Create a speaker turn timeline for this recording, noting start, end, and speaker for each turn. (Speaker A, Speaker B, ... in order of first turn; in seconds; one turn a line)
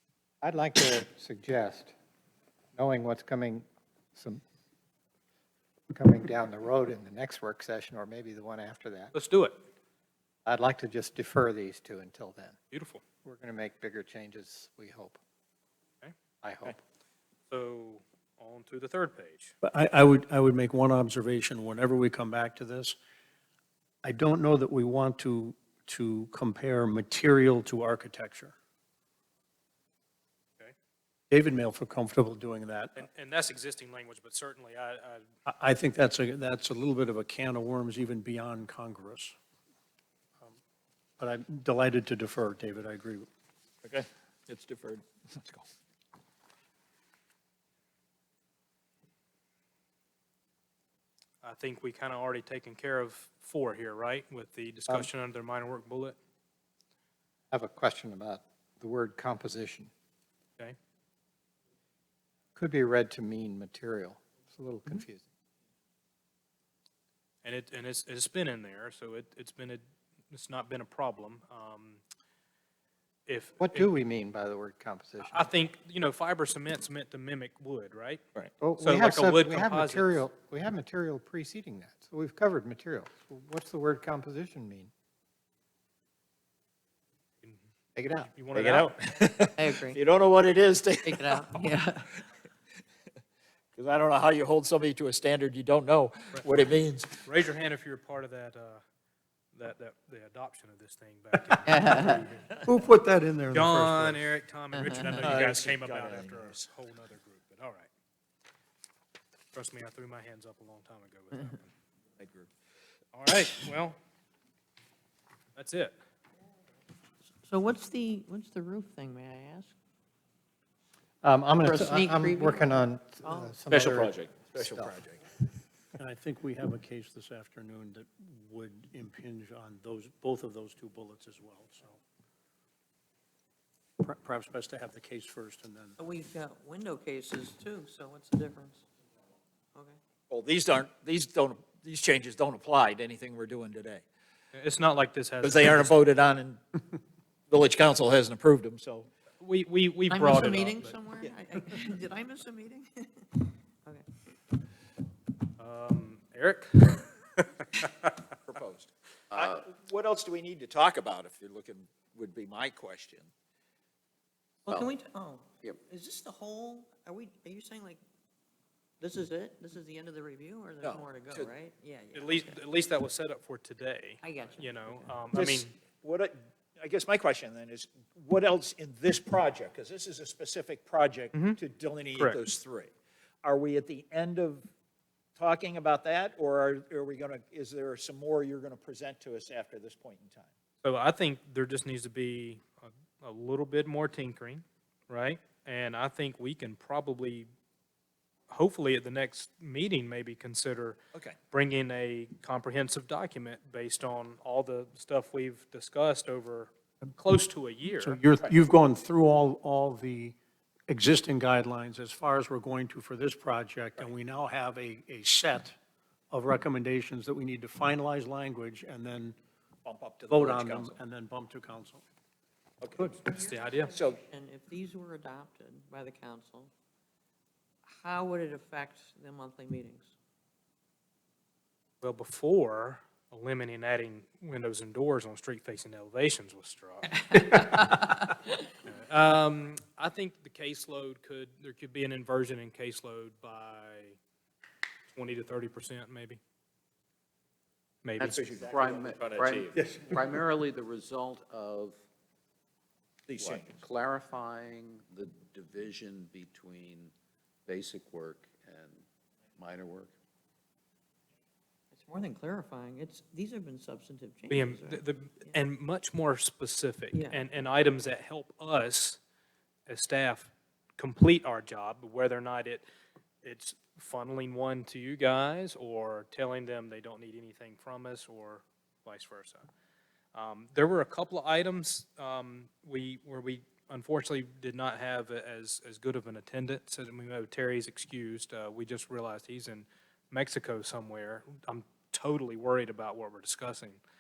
Speaker A: 0.4-1.9
Speaker A: 2.8-4.4
Speaker A: 5.9-9.1
Speaker B: 9.1-9.6
Speaker A: 10.5-12.6
Speaker B: 12.7-13.0
Speaker A: 13.2-15.2
Speaker A: 16.4-16.8
Speaker B: 17.5-19.5
Speaker C: 19.6-23.0
Speaker C: 24.0-28.6
Speaker C: 31.3-33.0
Speaker B: 33.0-35.2
Speaker C: 35.5-39.4
Speaker C: 41.2-43.3
Speaker D: 43.8-45.7
Speaker B: 51.4-56.2
Speaker A: 57.5-59.9
Speaker A: 62.5-65.2
Speaker B: 67.4-72.0
Speaker B: 73.3-73.9
Speaker A: 73.6-75.5
Speaker B: 75.2-78.2
Speaker A: 78.6-84.9
Speaker B: 78.8-80.2
Speaker A: 88.0-88.3
Speaker B: 88.3-89.0
Speaker D: 88.5-91.8
Speaker E: 89.5-90.0
Speaker E: 91.0-92.2
Speaker D: 93.8-97.2
Speaker B: 97.3-98.8
Speaker B: 99.5-102.6
Speaker E: 101.7-102.2
Speaker C: 102.7-104.2
Speaker B: 103.5-107.9
Speaker E: 104.8-105.2
Speaker D: 105.2-106.5
Speaker B: 109.5-111.7
Speaker D: 112.2-112.5
Speaker B: 113.1-114.0
Speaker B: 115.5-116.0
Speaker E: 117.4-119.8
Speaker A: 121.2-124.9
Speaker E: 121.6-123.6
Speaker D: 123.7-125.2
Speaker C: 126.0-132.0
Speaker C: 134.0-136.0
Speaker E: 136.0-138.9
Speaker D: 140.3-144.1
Speaker B: 144.5-145.9
Speaker D: 145.4-146.6
Speaker D: 147.5-149.1
Speaker B: 149.4-150.9
Speaker E: 150.1-154.1
Speaker B: 155.6-157.1
Speaker D: 158.4-163.3
Speaker F: 159.3-159.6
Speaker E: 164.7-168.0
Speaker E: 169.0-172.7
Speaker D: 170.8-171.5
Speaker B: 172.1-175.7
Speaker E: 174.2-175.0
Speaker D: 175.3-182.9
Speaker B: 181.3-181.6
Speaker D: 183.4-184.7
Speaker D: 185.4-190.5
Speaker B: 190.8-197.5
Speaker B: 198.5-201.0
Speaker B: 201.5-208.2
Speaker C: 208.0-210.4
Speaker C: 210.9-215.8
Speaker C: 216.3-219.4
Speaker D: 219.8-221.0
Speaker C: 220.3-222.0
Speaker D: 222.8-223.1
Speaker E: 223.0-226.7
Speaker B: 223.0-223.9
Speaker E: 227.9-230.1
Speaker B: 232.0-238.2
Speaker E: 237.3-238.6
Speaker B: 238.8-244.2
Speaker B: 245.1-246.4
Speaker B: 248.0-248.4
Speaker F: 248.2-252.0
Speaker D: 248.2-250.4
Speaker D: 253.3-253.8
Speaker F: 253.4-257.1
Speaker F: 257.7-259.1
Speaker F: 259.6-260.1
Speaker E: 261.9-265.6
Speaker B: 264.5-269.2
Speaker E: 267.1-267.4
Speaker B: 269.9-272.8
Speaker B: 273.4-279.7
Speaker B: 280.3-294.0